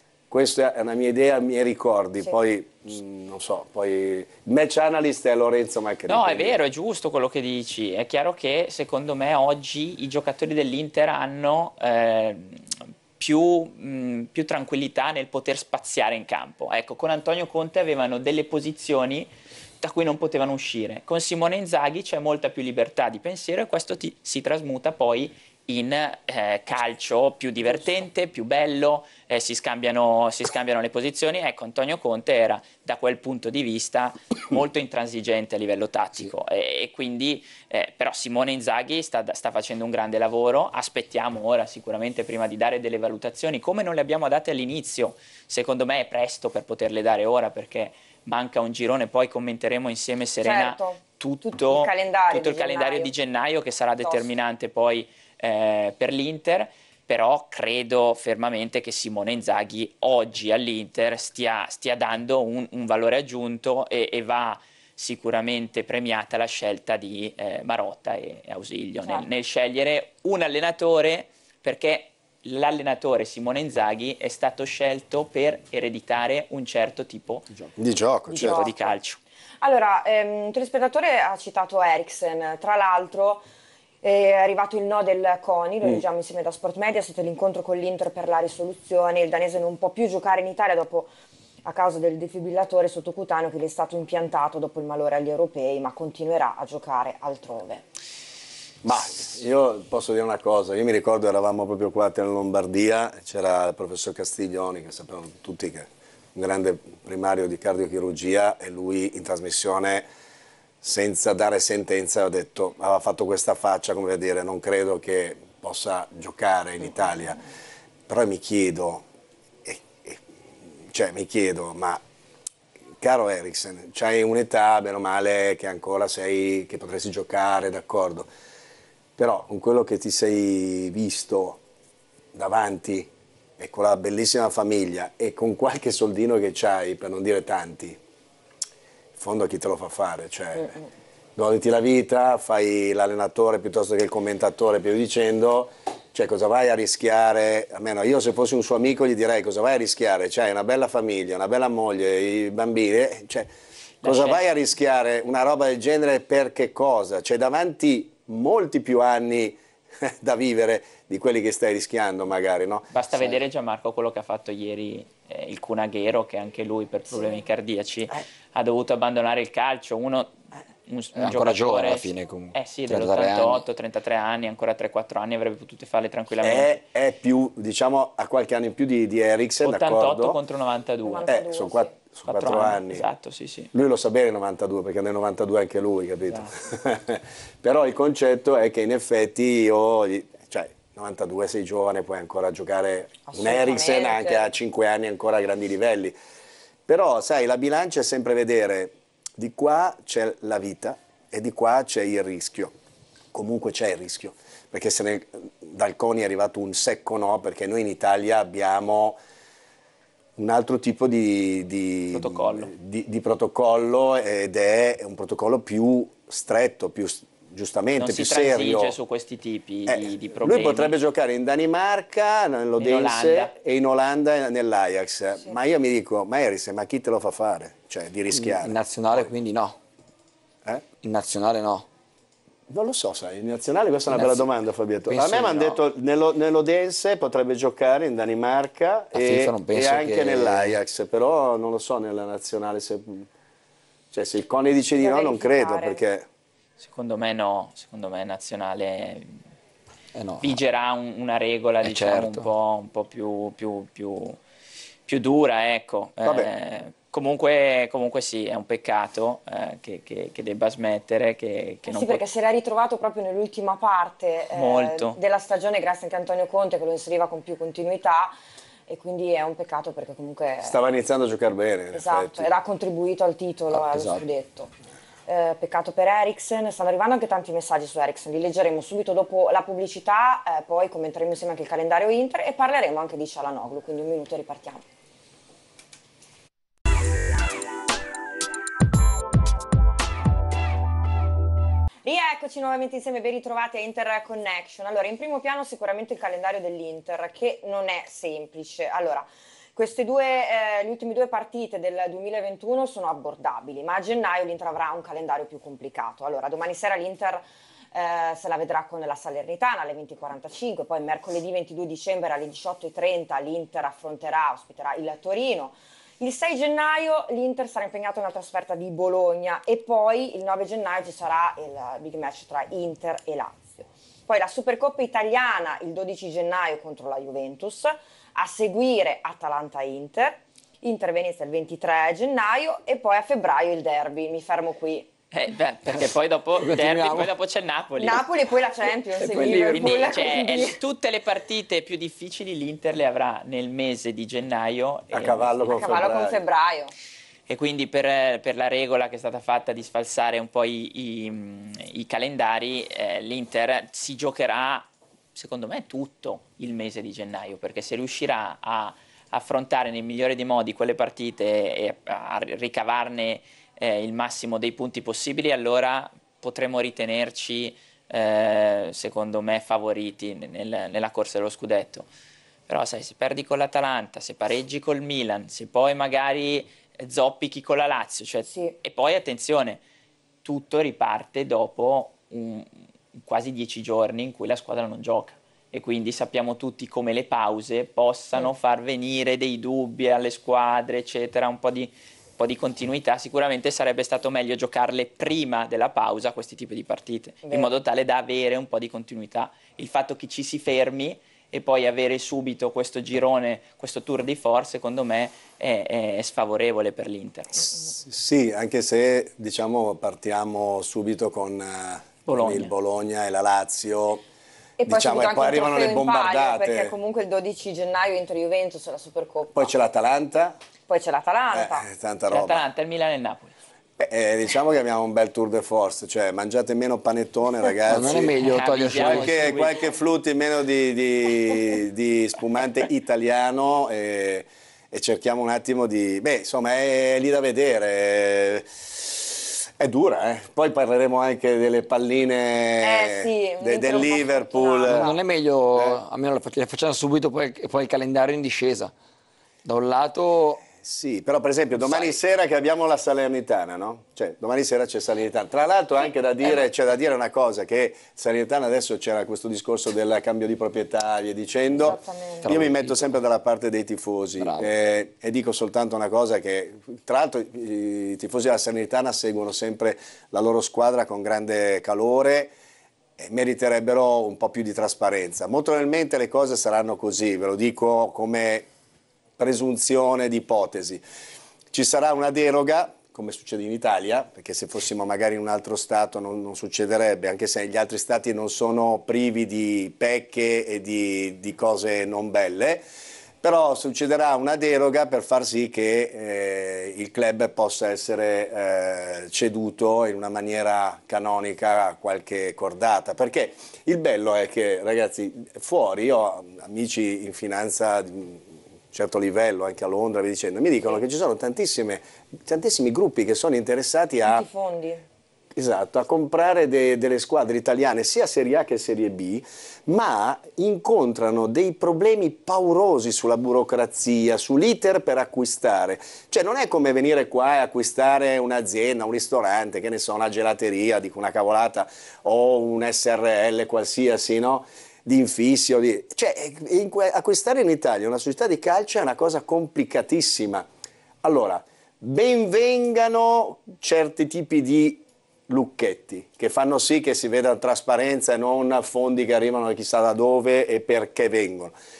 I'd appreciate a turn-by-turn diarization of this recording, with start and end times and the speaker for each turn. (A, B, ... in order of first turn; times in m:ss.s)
0:00.3-0:06.6 A
0:06.1-1:17.5 B
0:50.4-0:53.1 C
1:17.8-1:18.7 A
1:18.3-1:19.2 B
1:18.3-1:18.7 C
1:19.6-1:23.4 C
1:24.0-1:31.1 C
1:31.6-1:37.8 C
1:38.8-1:50.1 A
1:50.8-1:57.4 A
1:58.1-1:59.0 A
1:59.6-2:00.2 A
2:00.9-2:02.0 A
2:03.0-2:08.3 A
2:09.2-2:11.6 A
2:12.3-2:18.0 A
2:19.2-2:20.8 A
2:21.4-2:33.5 A
2:34.0-2:34.4 B
2:34.0-2:42.9 A
2:42.9-2:50.3 B
2:43.1-2:43.4 D
2:50.9-2:56.8 B
2:51.1-2:53.6 D
2:56.4-3:00.4 A
2:59.6-3:01.3 B
3:01.0-3:01.9 C
3:01.3-3:03.0 A
3:02.3-3:03.7 B
3:03.7-3:16.1 A
3:13.3-3:14.5 C
3:16.9-3:22.7 A
3:23.3-3:29.2 A
3:30.4-3:38.9 A
3:32.1-3:32.7 B
3:38.0-3:40.9 B
3:39.9-3:49.3 A
3:42.8-3:43.5 B
3:48.3-3:49.8 D
3:51.0-3:51.8 D
3:52.7-4:03.3 A
3:54.1-3:54.4 D
3:55.1-3:55.8 D
3:59.1-4:00.8 D
4:04.1-4:06.3 A
4:05.0-4:06.0 C
4:06.8-4:09.4 B
4:10.1-4:10.6 D
4:10.4-4:14.4 B
4:11.8-4:12.5 D
4:15.1-4:22.2 B
4:16.2-4:16.5 A
4:21.8-4:28.3 C
4:24.5-4:25.2 B
4:28.9-4:30.8 C
4:30.6-4:32.5 A
4:31.9-4:34.7 C
4:33.7-4:34.2 D
4:35.3-4:44.8 C
4:52.0-5:35.1 C
5:35.3-5:38.2 B
5:35.9-5:37.3 D
5:38.0-5:40.8 C
5:39.2-5:40.3 D
5:39.7-5:45.8 B
5:45.1-5:46.4 A
5:45.7-5:46.9 C
5:47.5-6:12.1 B
6:12.7-6:19.8 B
6:18.5-6:18.7 C
6:20.4-6:47.8 B
6:37.4-6:37.7 C
6:48.0-6:54.2 A
6:52.2-6:52.7 B
6:54.8-6:59.7 C
6:54.8-6:56.9 A
6:59.5-7:00.6 A
7:00.9-7:01.9 C
7:01.5-7:02.6 A
7:02.3-7:03.6 B
7:04.0-7:08.4 A
7:07.9-7:09.4 D
7:08.1-7:09.8 B
7:08.9-7:25.1 A
7:22.8-7:25.2 C
7:24.9-7:28.9 D
7:25.7-7:26.0 A
7:29.6-7:30.6 D
7:30.8-7:52.5 A
7:41.7-7:42.6 C
7:42.4-7:43.2 D
7:44.4-7:44.7 D
7:53.2-7:58.7 A
7:59.4-8:01.0 A
8:01.7-8:12.8 A
8:13.4-8:34.4 A
8:34.2-8:35.0 C
8:35.6-9:00.6 A
9:01.2-9:11.7 A